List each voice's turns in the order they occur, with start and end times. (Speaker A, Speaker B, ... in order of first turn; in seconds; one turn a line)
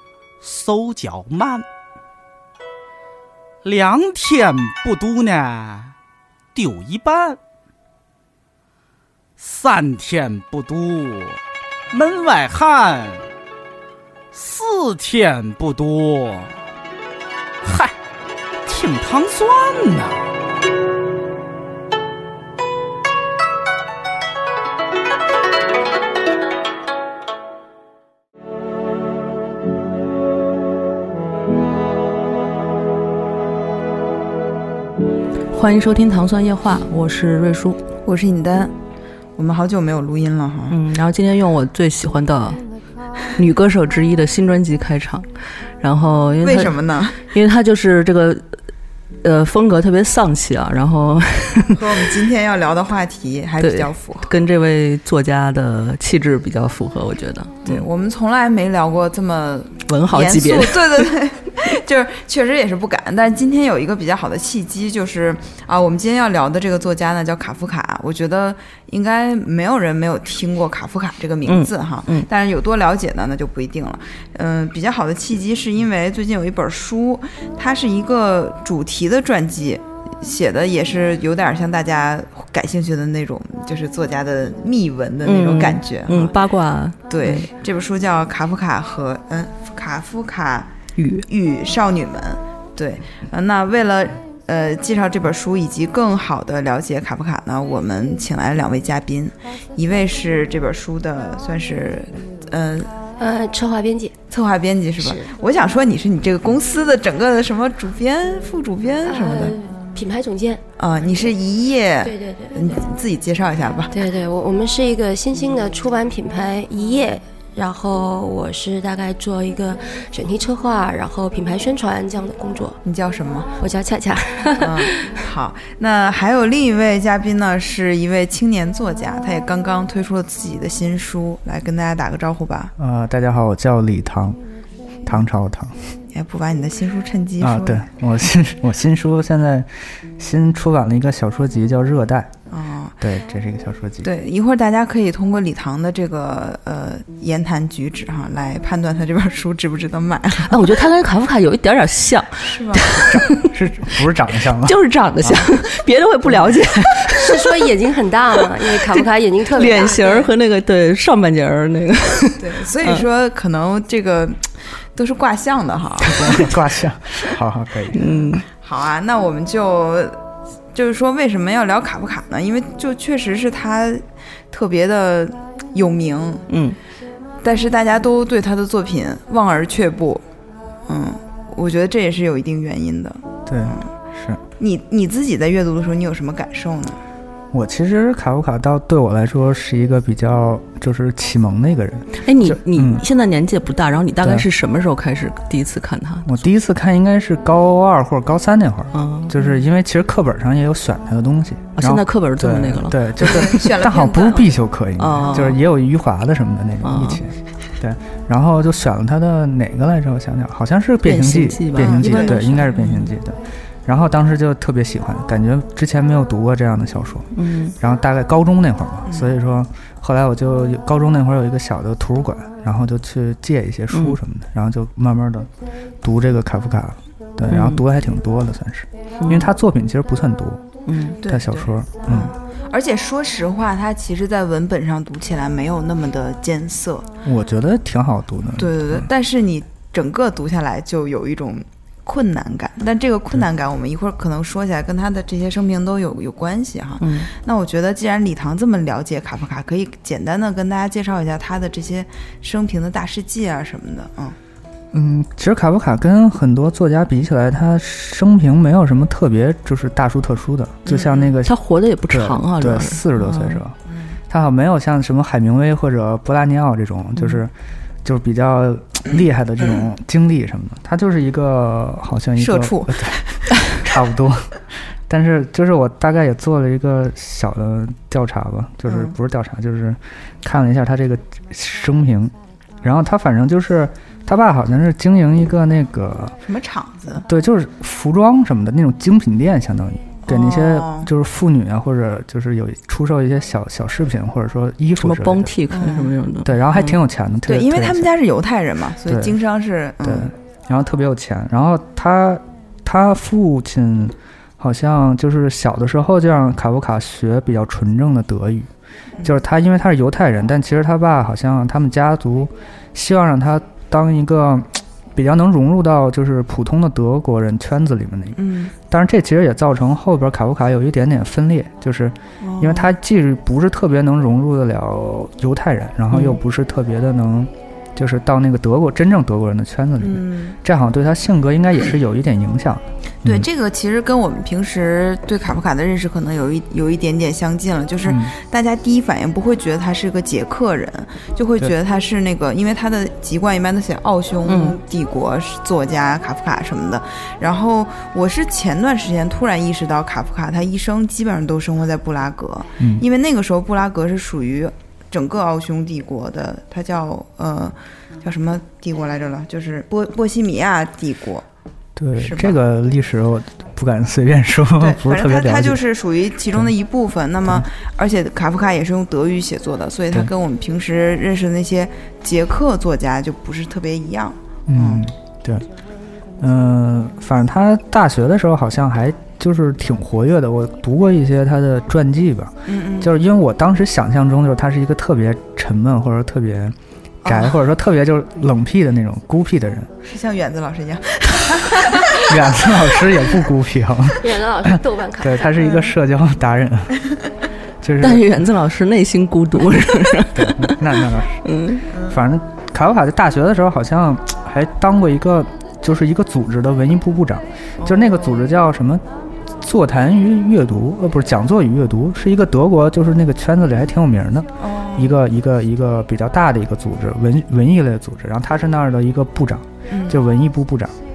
Speaker A: 0.4-1.6
Speaker A: 3.6-5.9
Speaker A: 6.5-7.4
Speaker A: 9.4-11.4
Speaker A: 11.9-13.3
Speaker A: 14.3-16.6
Speaker A: 17.6-17.9
Speaker A: 18.6-20.3
Speaker B: 35.5-37.8
Speaker C: 38.0-38.7
Speaker C: 39.4-40.8
Speaker B: 40.7-42.6
Speaker B: 43.3-45.3
Speaker B: 45.8-48.4
Speaker C: 46.4-47.2
Speaker B: 49.2-52.0
Speaker C: 51.7-54.3
Speaker B: 53.6-57.9
Speaker C: 57.6-86.3
Speaker B: 59.9-61.1
Speaker B: 71.5-72.3
Speaker B: 85.2-87.5
Speaker C: 87.1-90.7
Speaker B: 91.0-91.3
Speaker C: 91.3-102.9
Speaker D: 103.2-104.1
Speaker C: 104.3-109.6
Speaker D: 105.0-105.3
Speaker D: 109.0-110.6
Speaker C: 110.8-114.0
Speaker D: 112.0-112.9
Speaker D: 113.9-122.8
Speaker C: 122.8-123.5
Speaker D: 123.6-125.2
Speaker C: 124.6-132.7
Speaker E: 132.8-134.4
Speaker E: 135.1-135.8
Speaker C: 136.1-137.9
Speaker E: 137.4-142.3
Speaker C: 142.5-143.0
Speaker E: 143.0-144.1
Speaker C: 144.0-150.6
Speaker B: 150.5-154.0
Speaker C: 152.4-152.8
Speaker E: 153.1-155.5
Speaker B: 154.6-157.5
Speaker D: 157.2-160.0
Speaker B: 158.7-163.1
Speaker C: 159.6-160.3
Speaker C: 162.4-166.6
Speaker E: 166.0-168.3
Speaker B: 167.9-168.5
Speaker C: 168.6-170.2
Speaker C: 170.7-176.5
Speaker B: 176.5-176.8
Speaker C: 177.4-180.2
Speaker C: 180.9-183.9
Speaker E: 183.5-184.4
Speaker C: 184.6-187.0
Speaker E: 187.5-193.0
Speaker B: 192.2-196.4
Speaker E: 194.2-194.5
Speaker E: 196.3-217.3
Speaker B: 198.9-199.4
Speaker B: 201.8-203.7
Speaker C: 203.2-204.6
Speaker B: 205.0-205.6
Speaker B: 206.8-207.2
Speaker B: 211.0-213.2
Speaker C: 211.8-212.6
Speaker B: 217.3-217.8
Speaker E: 217.8-225.5
Speaker C: 219.1-219.3
Speaker B: 223.9-224.2
Speaker E: 226.0-232.3
Speaker B: 227.5-227.8
Speaker B: 229.2-229.5
Speaker B: 230.9-231.2
Speaker C: 231.2-237.1
Speaker E: 237.2-239.1
Speaker C: 238.6-254.4
Speaker B: 247.0-247.3
Speaker E: 254.9-261.6
Speaker C: 260.9-261.3
Speaker B: 261.4-263.6
Speaker E: 262.1-263.8
Speaker C: 263.9-264.2
Speaker E: 264.3-267.5
Speaker E: 268.0-274.6
Speaker C: 272.4-273.4
Speaker E: 275.1-286.4
Speaker C: 278.9-279.1
Speaker C: 286.5-287.3
Speaker E: 287.2-295.6
Speaker C: 290.3-291.1
Speaker B: 295.0-296.6
Speaker C: 295.7-296.1
Speaker E: 296.4-298.1
Speaker C: 297.5-300.3
Speaker E: 299.1-299.4
Speaker E: 300.0-308.7
Speaker E: 309.2-333.5
Speaker C: 318.4-318.7
Speaker C: 322.4-322.9
Speaker B: 326.1-326.4
Speaker C: 330.0-330.6
Speaker C: 333.2-361.4
Speaker E: 338.0-338.3
Speaker B: 344.5-344.8
Speaker E: 362.0-365.9
Speaker C: 362.2-362.6
Speaker C: 364.8-375.0
Speaker E: 374.7-375.6
Speaker E: 376.4-389.9
Speaker C: 382.7-383.1
Speaker C: 387.2-387.6
Speaker C: 390.0-392.5
Speaker E: 392.1-397.0
Speaker D: 394.2-395.6
Speaker C: 395.6-395.9
Speaker E: 397.8-398.4
Speaker B: 398.0-401.9
Speaker E: 400.3-401.5
Speaker C: 401.9-402.2
Speaker E: 402.0-409.0
Speaker C: 407.8-408.4
Speaker E: 409.6-420.9
Speaker C: 414.6-415.2
Speaker C: 419.9-420.2